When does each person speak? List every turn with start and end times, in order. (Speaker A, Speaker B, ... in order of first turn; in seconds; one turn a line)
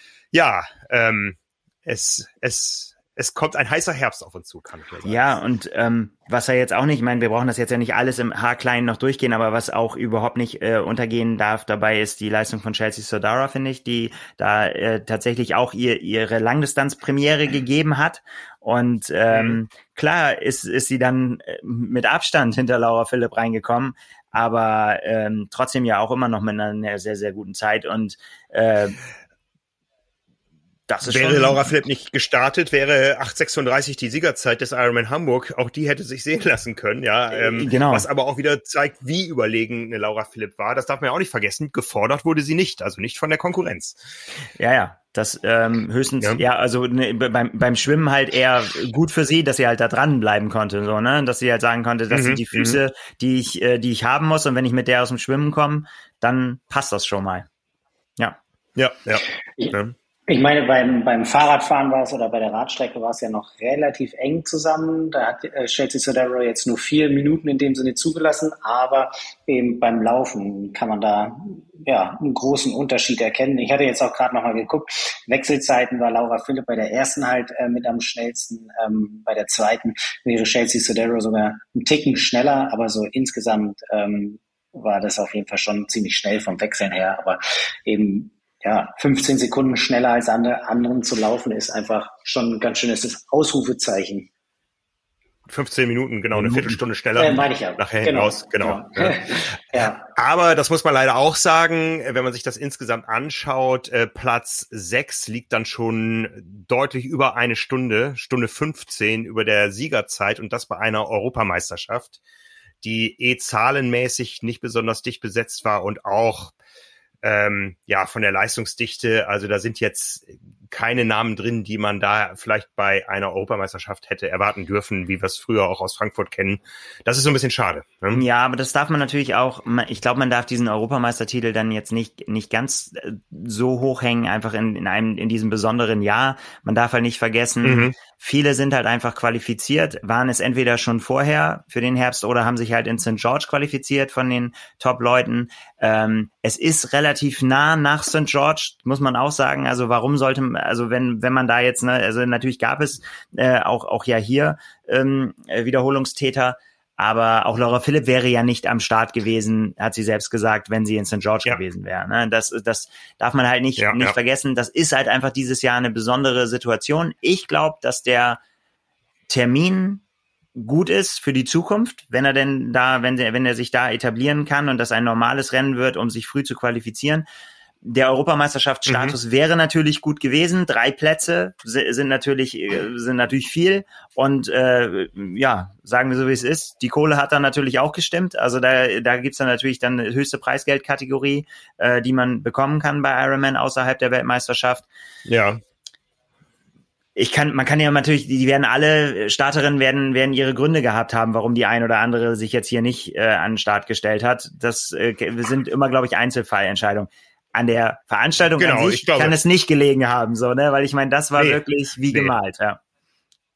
Speaker A: 0.3-5.4
Speaker B: 5.0-29.0
Speaker A: 19.3-19.6
Speaker B: 30.9-31.6
Speaker A: 31.1-44.0
Speaker B: 37.3-38.1
Speaker B: 44.6-57.5
Speaker A: 52.1-52.8
Speaker A: 58.8-59.9
Speaker C: 60.3-94.3
Speaker A: 95.5-99.4
Speaker B: 96.3-96.7
Speaker C: 97.2-100.1
Speaker A: 100.1-112.2
Speaker A: 112.8-116.5
Speaker A: 117.2-128.2
Speaker B: 128.1-168.4
Speaker A: 137.6-137.9
Speaker A: 163.8-164.1
Speaker B: 169.3-170.0
Speaker B: 170.6-177.2
Speaker B: 177.8-194.9
Speaker A: 178.9-179.2
Speaker A: 195.2-195.6
Speaker B: 197.2-212.8
Speaker A: 208.6-209.4
Speaker A: 211.4-212.3